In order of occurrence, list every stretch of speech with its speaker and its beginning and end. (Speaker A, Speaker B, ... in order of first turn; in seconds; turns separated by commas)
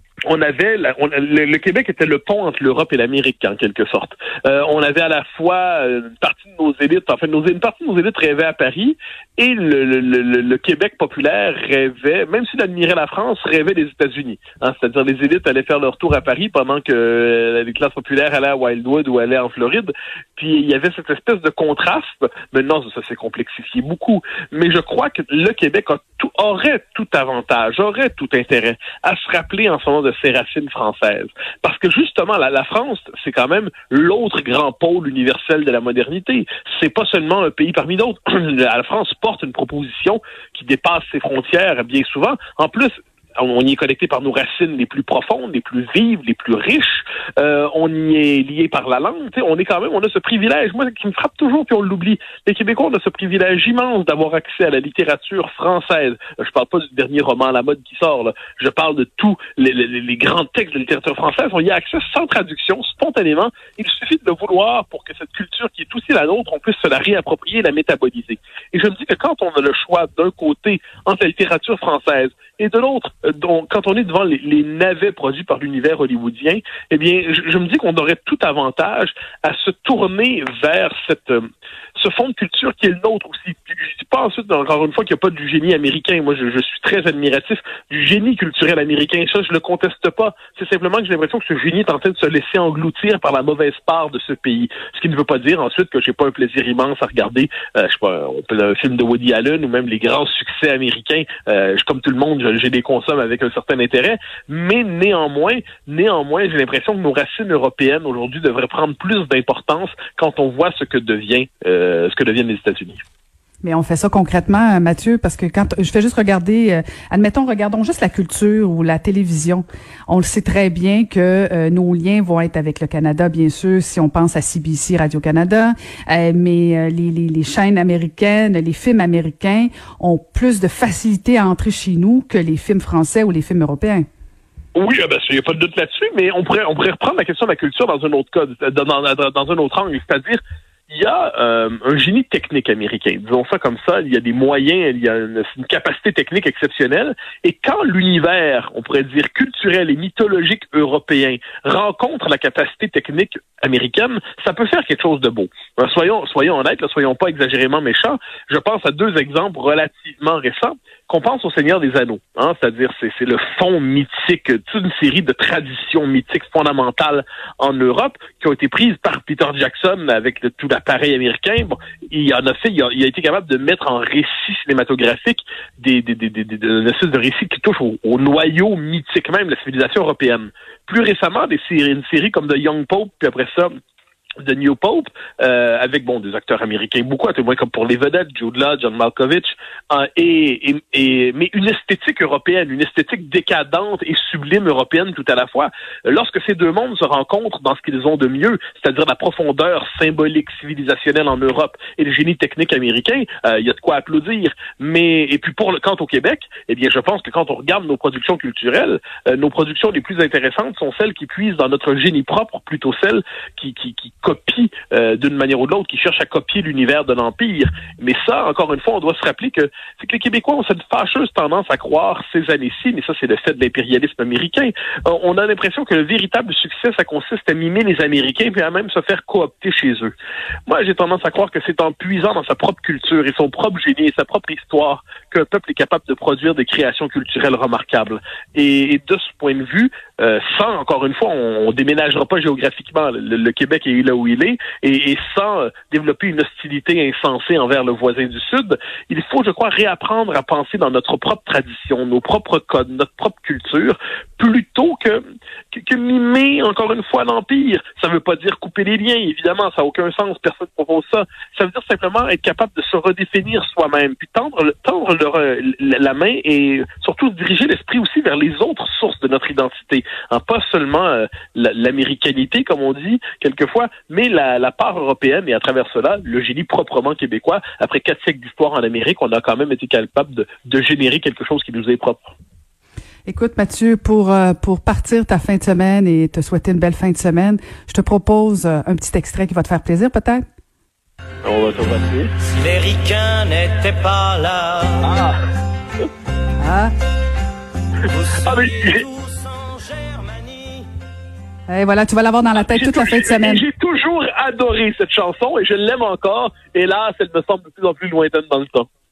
Speaker A: 0.3-81.4, Speaker A: 82.0-113.0, Speaker B: 113.6-134.0, Speaker A: 134.7-183.7, Speaker A: 184.4-230.1, Speaker A: 230.7-255.2, Speaker A: 255.7-282.3, Speaker B: 283.2-290.4, Speaker A: 291.4-292.3, Speaker C: 292.6-295.0, Speaker A: 295.0-295.4, Speaker B: 296.6-296.9, Speaker C: 298.1-300.8, Speaker A: 298.3-299.1, Speaker B: 301.7-303.6, Speaker A: 302.6-308.9